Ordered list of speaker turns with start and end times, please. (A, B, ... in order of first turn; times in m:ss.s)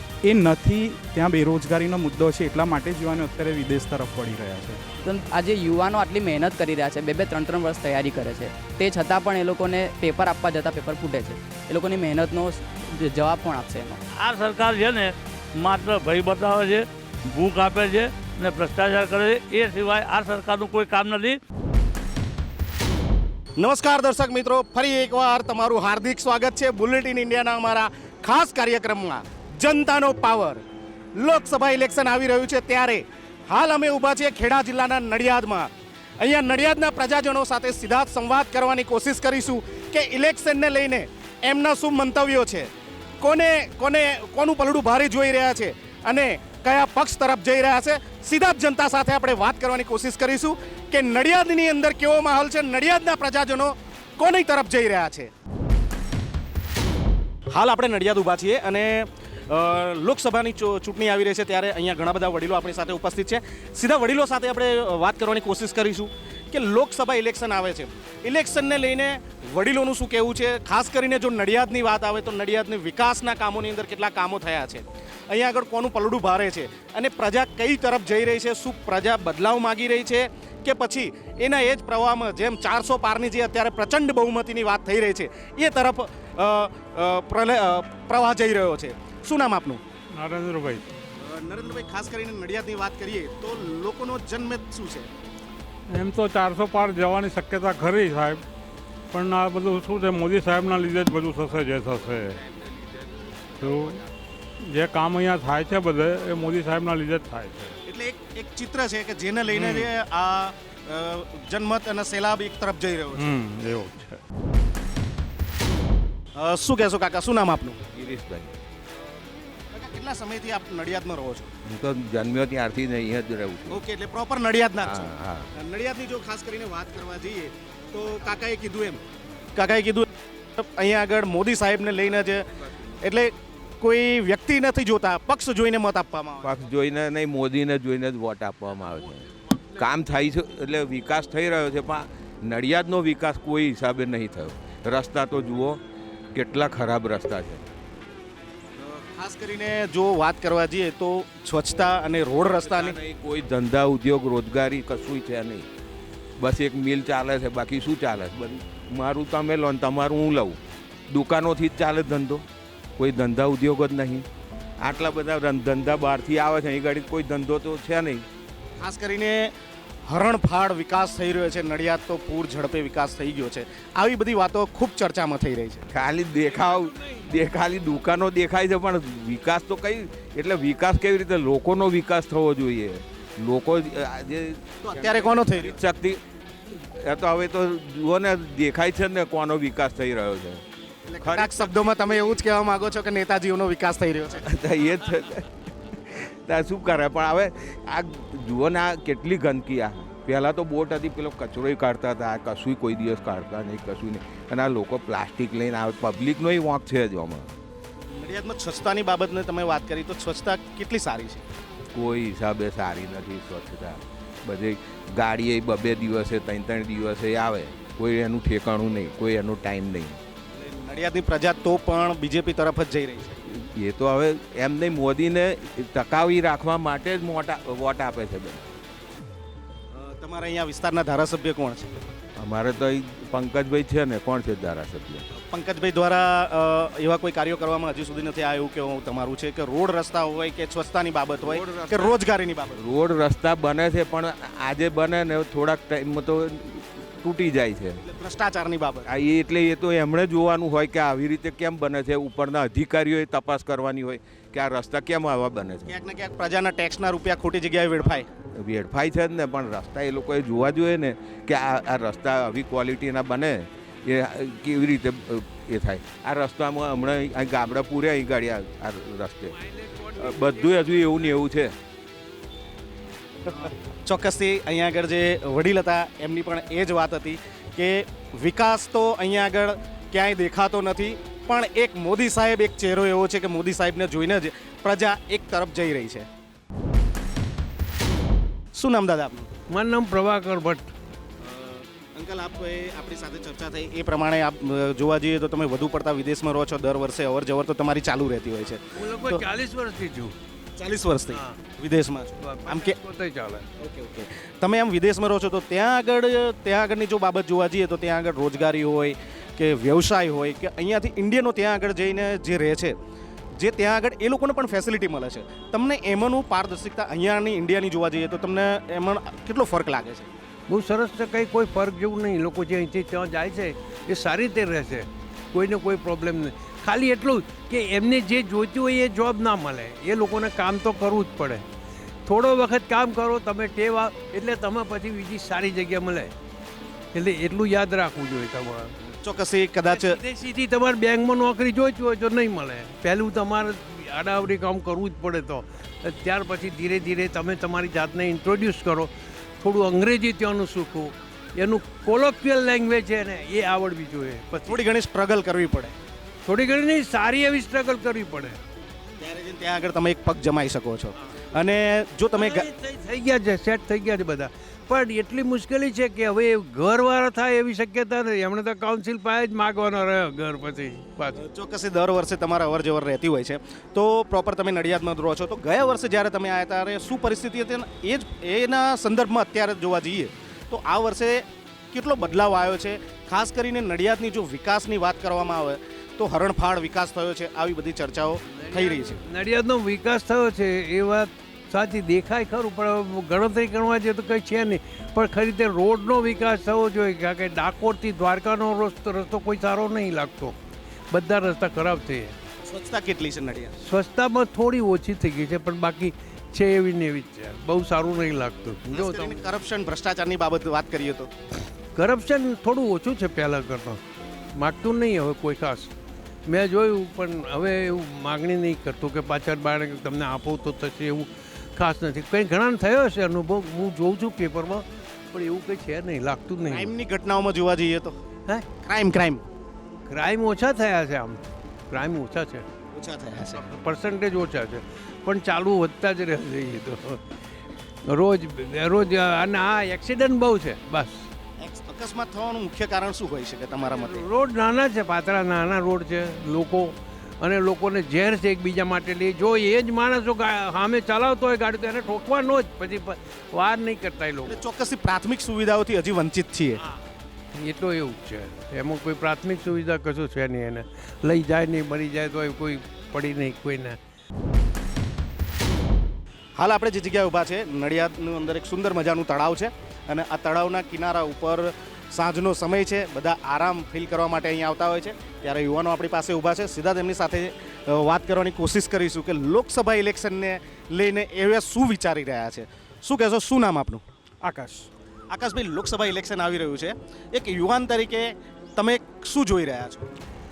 0:00.2-0:04.8 A
0:05.0-0:14.0 B
0:14.2-0:21.4 C
0:23.6-0:30.6 D
0:31.2-0:42.7 D
0:43.2-0:55.3 D
0:57.5-1:29.8 D
1:30.1-1:30.8 E
1:31.2-1:35.1 D
1:35.9-1:38.4 E
1:39.1-1:42.4 E
1:41.7-1:44.1 F
1:43.6-1:44.0 E
1:44.6-1:47.8 E
1:47.8-1:53.4 D
1:49.5-1:49.9 E
1:53.2-1:54.2 E
1:56.4-1:57.8 D
1:57.9-1:58.5 F
1:59.7-2:01.5 D
2:01.6-2:03.8 F
2:03.7-2:09.0 D
2:04.8-2:05.5 F
2:09.5-2:16.5 D
2:16.4-2:25.8 F
2:19.0-2:19.9 G
2:26.3-2:27.6 F
2:28.8-2:33.0 D
2:32.4-2:35.6 F
2:36.4-2:40.6 F
2:41.1-2:42.4 F
2:43.0-2:44.2 F
2:44.8-2:48.2 F
2:48.8-2:49.5 D
2:50.1-2:55.8 D
2:55.9-3:06.2 F
2:56.3-2:57.3 G
3:04.8-3:05.8 D
3:06.7-3:10.6 F
3:11.1-3:14.4 D
3:11.2-3:11.8 F
3:14.4-3:27.5 F
3:28.1-3:31.4 D
3:31.9-3:40.2 F
3:40.5-3:43.4 D
3:43.5-3:48.7 F
3:49.9-3:51.9 D
3:52.4-3:55.2 F
3:55.3-4:02.8 D
4:01.4-4:02.2 F
4:02.8-4:08.0 F
4:08.0-4:09.1 D
4:09.1-4:15.9 F
4:15.9-4:18.3 D
4:18.6-4:29.6 F
4:29.5-4:31.4 G
4:30.2-4:31.7 F
4:33.4-4:46.3 D
4:48.7-4:49.5 D
4:49.7-4:50.9 G
4:51.4-4:59.4 D
4:59.0-5:00.3 G
5:00.8-5:03.0 D
5:01.3-5:01.6 G
5:02.4-5:03.6 G
5:03.8-5:12.9 D
5:13.6-5:20.3 D
5:20.7-5:31.6 G
5:32.2-5:36.3 G
5:37.1-5:38.9 G
5:39.2-5:40.2 D
5:39.9-5:54.8 G
5:54.6-5:55.9 D
5:56.4-5:58.6 G
5:59.2-6:02.7 D
6:02.4-6:11.4 G
6:11.4-6:29.2 D
6:28.5-6:40.6 G
6:41.1-6:42.4 G
6:42.6-6:43.7 D
6:43.8-6:49.4 G
6:48.9-6:51.3 D
6:51.9-6:54.0 G
6:54.6-6:55.9 G
6:56.4-7:06.9 G
7:06.7-7:08.2 D
7:08.7-7:09.4 D
7:10.1-7:12.6 G
7:12.9-7:13.6 D
7:13.6-7:17.3 G
7:18.0-7:21.3 G
7:21.6-7:24.2 D
7:23.8-7:34.6 G
7:34.4-7:36.8 D
7:37.5-7:44.0 G
7:46.6-8:04.0 D
8:04.4-8:04.9 A
8:05.3-8:10.1 D